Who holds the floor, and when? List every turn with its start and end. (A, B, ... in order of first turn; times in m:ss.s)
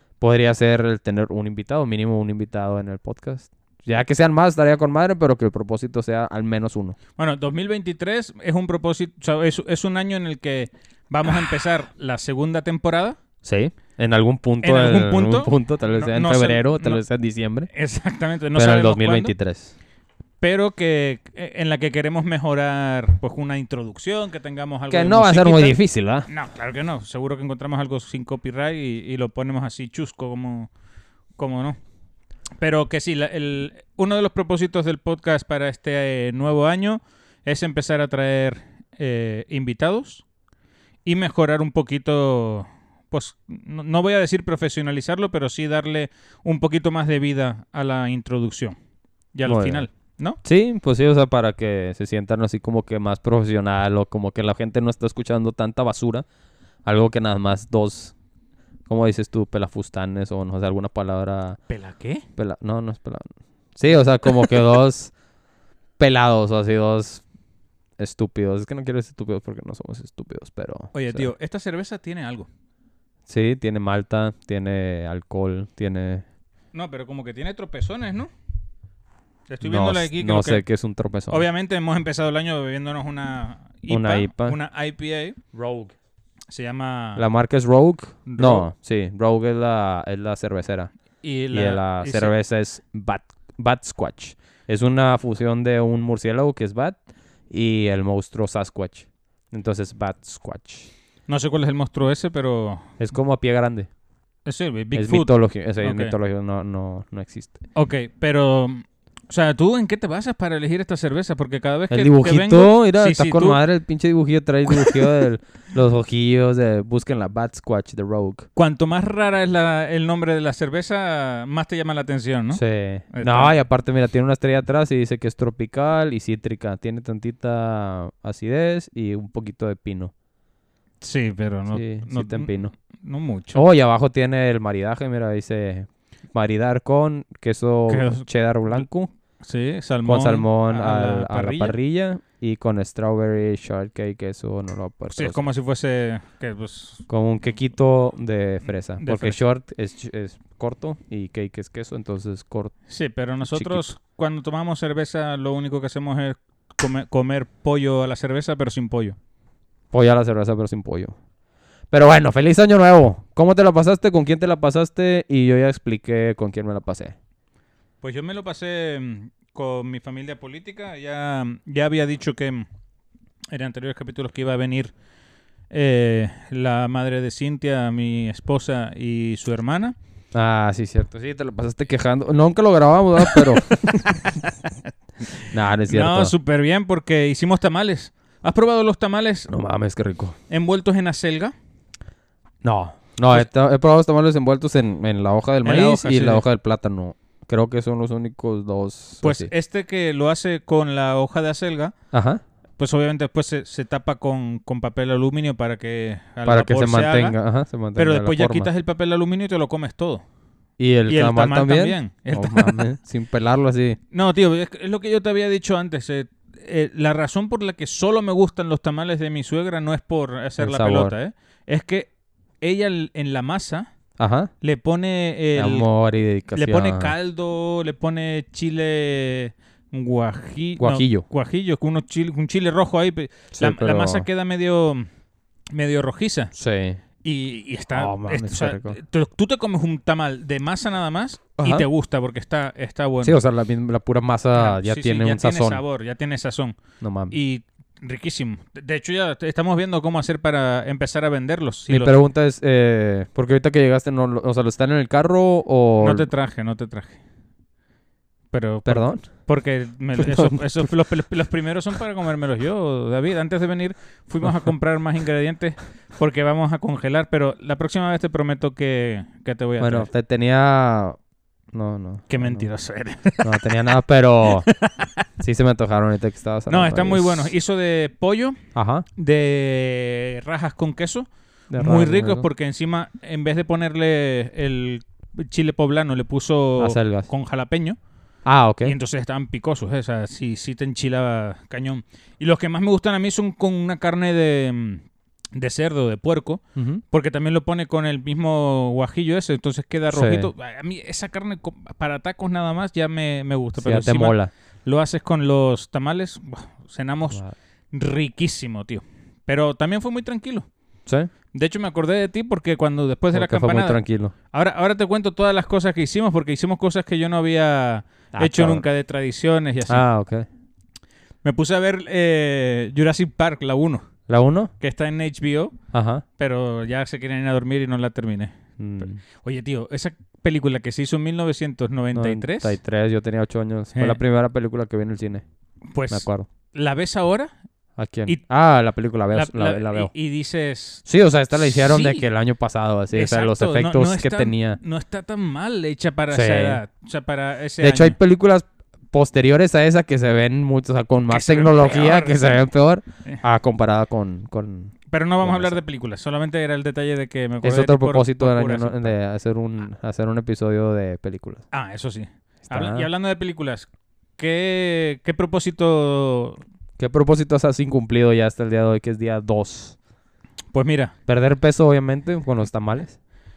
0:00.2-0:07.0 A
0:07.2-0:13.2 B
0:13.4-0:17.7 A
0:14.6-0:17.0 B
0:17.7-0:19.3 B
0:18.6-0:19.7 A
0:20.4-0:25.8 B
0:24.9-0:26.3 A
0:26.3-0:30.7 B
0:31.4-0:31.8 B
0:32.6-0:40.2 B
0:41.0-0:48.8 B
0:49.3-0:50.4 B
0:49.4-0:49.9 A
0:50.4-0:56.2 A
0:56.8-0:58.1 A
0:58.9-1:01.6 A
1:01.7-1:02.2 B
1:02.4-1:05.1 A
1:06.0-1:07.2 A
1:08.0-1:11.3 A
1:10.9-1:12.5 B
1:13.3-1:16.2 A
1:16.7-1:18.3 B
1:19.5-1:20.6 B
1:19.6-1:21.4 A
1:21.3-1:25.4 B
1:23.9-1:24.6 A
1:25.5-1:25.9 A
1:26.5-1:27.2 B
1:27.2-1:30.9 A
1:28.2-1:28.6 B
1:31.2-1:32.3 B
1:31.5-1:37.0 A
1:37.5-1:40.9 A
1:41.3-1:42.9 B
1:43.0-1:43.9 A
1:44.4-1:46.1 B
1:44.9-1:47.6 A
1:47.7-1:53.6 B
1:51.9-1:58.5 A
1:54.6-1:55.1 B
1:58.6-2:02.6 B
2:02.5-2:10.1 A
2:03.1-2:03.5 B
2:11.0-2:13.6 B
2:11.7-2:12.7 A
2:13.5-2:19.1 A
2:17.9-2:18.9 B
2:19.4-2:21.8 B
2:20.0-2:25.4 A
2:25.1-2:27.0 B
2:27.1-2:32.7 A
2:29.0-2:29.4 B
2:32.9-2:39.2 B
2:33.4-2:33.9 A
2:39.9-2:41.2 A
2:41.9-2:47.2 A
2:48.0-2:52.7 B
2:53.5-2:54.9 B
2:55.7-2:59.9 B
3:00.3-3:04.3 A
3:03.2-3:04.5 B
3:05.5-3:06.3 A
3:05.9-3:09.5 B
3:09.5-3:10.4 A
3:10.5-3:11.5 B
3:12.6-3:19.5 A
3:15.6-3:16.4 B
3:19.2-3:21.9 B
3:22.1-3:22.4 A
3:22.8-3:27.4 B
3:26.4-3:28.7 A
3:28.0-3:30.2 B
3:30.8-3:34.0 A
3:31.1-3:32.8 B
3:34.1-3:42.1 B
3:40.6-3:41.1 A
3:42.6-3:43.9 B
3:44.2-3:44.5 A
3:44.6-3:45.9 B
3:45.5-3:47.1 A
3:46.5-3:55.1 B
3:50.8-3:51.2 A
3:53.5-3:54.2 A
3:55.7-3:56.5 B
3:56.5-3:57.0 A
3:57.2-4:03.3 B
3:57.9-3:59.0 A
4:01.6-4:01.9 A
4:03.2-4:05.8 A
4:04.6-4:06.8 B
4:07.0-4:07.4 A
4:07.3-4:12.1 B
4:11.9-4:16.3 A
4:16.0-4:17.2 B
4:18.5-4:30.1 B
4:18.8-4:19.2 A
4:20.2-4:20.9 A
4:29.8-4:31.2 A
4:31.7-4:32.7 A
4:32.3-4:33.7 B
4:33.4-4:34.7 A
4:34.4-4:35.2 B
4:35.4-4:37.5 A
4:36.7-4:38.6 B
4:38.7-4:39.0 A
4:39.2-4:48.0 B
4:41.7-4:42.4 A
4:46.8-4:47.3 A
4:48.4-4:48.9 A
4:48.8-5:10.7 B
4:56.8-4:57.0 A
5:00.1-5:00.5 A
5:03.8-5:04.5 A
5:11.5-5:14.0 B
5:13.3-5:14.3 A
5:14.5-5:20.0 B
5:18.3-5:18.8 A
5:19.9-5:20.4 A
5:21.4-5:24.0 B
5:24.3-5:24.7 A
5:24.8-5:25.8 B
5:25.9-5:26.2 A
5:26.4-5:28.5 B
5:28.8-5:29.2 A
5:29.3-5:32.8 B
5:32.1-5:35.4 A
5:35.9-5:37.5 B
5:36.1-5:36.5 A
5:38.0-5:40.1 A
5:39.3-5:41.0 B
5:41.0-5:44.8 A
5:41.5-5:42.2 B
5:43.1-5:48.2 B
5:46.3-5:46.8 A
5:47.8-5:55.8 A
5:51.3-5:52.6 B
5:55.1-5:59.1 B
5:57.6-6:01.6 A
6:01.7-6:06.6 B
6:02.7-6:03.1 A
6:07.0-6:10.0 A
6:10.7-6:11.1 B
6:11.3-6:13.2 A